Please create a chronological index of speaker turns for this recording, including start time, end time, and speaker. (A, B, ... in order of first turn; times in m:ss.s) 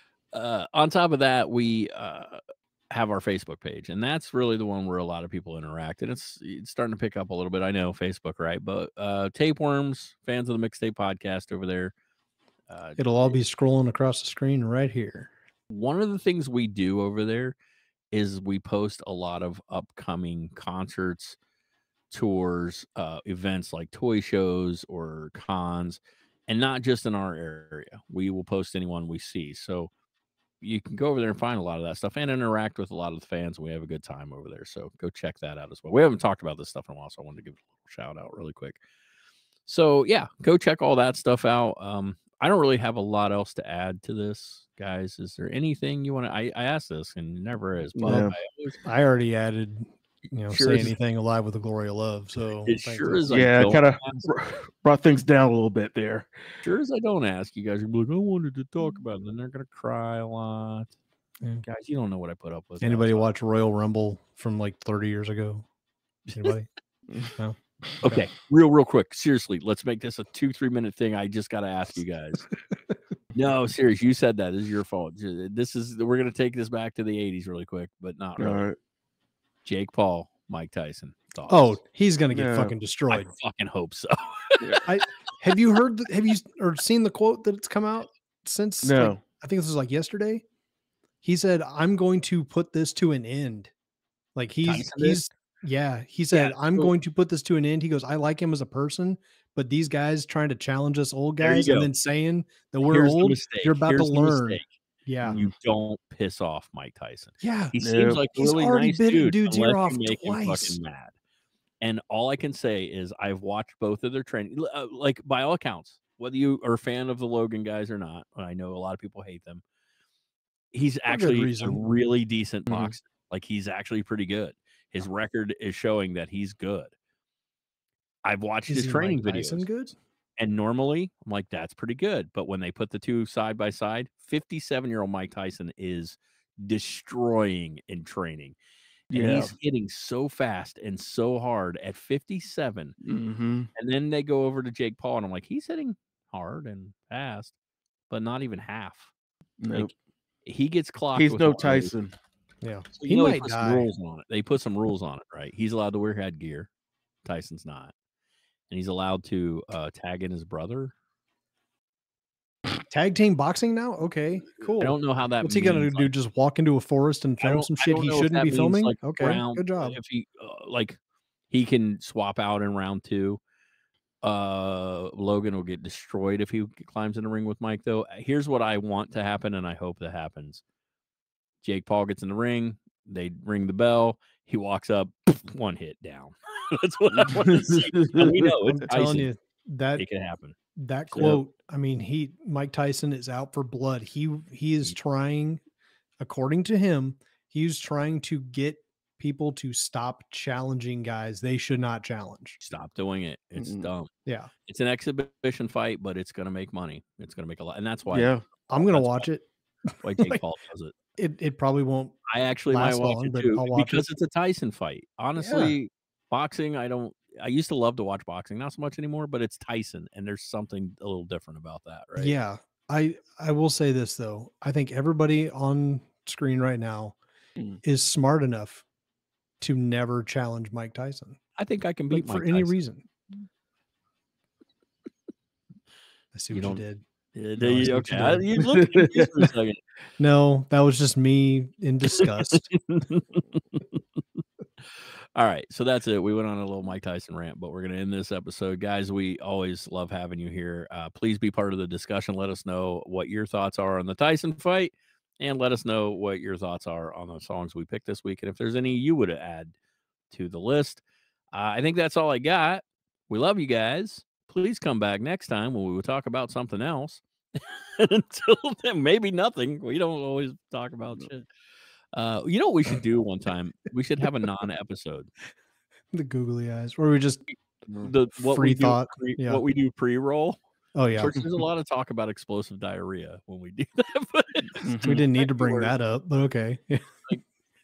0:00.3-0:11.9 A
0:12.7-0:13.4 A
0:13.0-0:15.3 B
0:15.7-0:17.6 A
0:18.1-0:21.4 A
0:22.1-0:29.9 A
0:30.6-0:38.8 A
0:39.7-0:48.8 A
0:48.0-0:48.4 C
0:48.8-0:53.2 B
0:50.5-0:51.0 A
0:52.7-0:54.2 A
0:53.3-0:56.4 C
0:56.6-1:00.9 A
1:01.6-1:03.3 A
1:02.8-1:05.7 B
1:06.4-1:06.7 B
1:07.4-1:08.3 B
1:08.0-1:12.4 A
1:13.3-1:18.7 A
1:18.4-1:18.8 C
1:19.6-1:21.8 A
1:21.5-1:23.3 B
1:22.3-1:22.7 C
1:23.1-1:24.8 A
1:24.8-1:30.4 B
1:28.8-1:29.2 C
1:31.2-1:33.7 B
1:34.4-1:45.4 B
1:34.6-1:35.3 A
1:36.3-1:36.9 A
1:41.4-1:41.9 A
1:42.8-1:51.1 A
1:47.4-1:47.8 B
1:47.8-1:48.2 C
1:48.3-1:50.8 B
1:51.8-1:59.6 A
2:00.7-2:06.9 A
2:01.1-2:01.8 B
2:02.7-2:03.0 C
2:08.2-2:09.7 A
2:08.7-2:10.0 B
2:10.4-2:18.6 A
2:19.1-2:19.5 C
2:19.1-2:23.0 A
2:23.0-2:23.7 C
2:23.8-2:27.5 A
2:28.1-2:29.1 A
2:29.6-2:29.9 C
2:30.4-2:31.9 A
2:31.1-2:32.1 C
2:32.6-2:33.9 B
2:33.0-2:36.7 A
2:37.2-2:37.9 A
2:38.7-2:40.9 A
2:42.9-2:50.0 B
2:44.8-2:46.1 A
2:47.4-2:51.0 A
2:51.5-2:53.4 A
2:54.2-3:00.6 A
3:01.6-3:09.3 A
3:07.7-3:08.3 C
3:08.8-3:10.0 B
3:10.0-3:10.6 A
3:10.8-3:15.6 B
3:16.2-3:22.6 B
3:22.6-3:24.1 A
3:23.6-3:23.9 C
3:24.3-3:24.5 B
3:24.7-3:29.3 A
3:28.1-3:28.4 C
3:28.7-3:29.4 B
3:30.0-3:30.9 A
3:31.2-3:34.1 B
3:32.3-3:42.3 A
3:35.4-3:35.8 B
3:42.2-3:47.2 B
3:47.8-3:48.8 B
3:49.6-3:51.4 B
3:51.6-3:52.8 A
3:52.1-3:53.1 B
3:56.3-3:57.0 B
3:56.5-3:56.8 A
3:57.3-3:59.8 A
3:57.6-3:58.4 B
3:58.6-3:59.3 C
4:00.2-4:02.7 B
4:02.5-4:04.0 A
4:05.4-4:19.7 A
4:20.3-4:21.0 A
4:21.5-4:31.5 A
4:32.1-4:35.3 A
4:36.1-4:37.4 B
4:38.0-4:40.6 A
4:38.4-4:39.6 B
4:40.9-4:41.3 B
4:41.2-4:45.9 A
4:44.8-4:45.3 C
4:45.0-4:47.1 B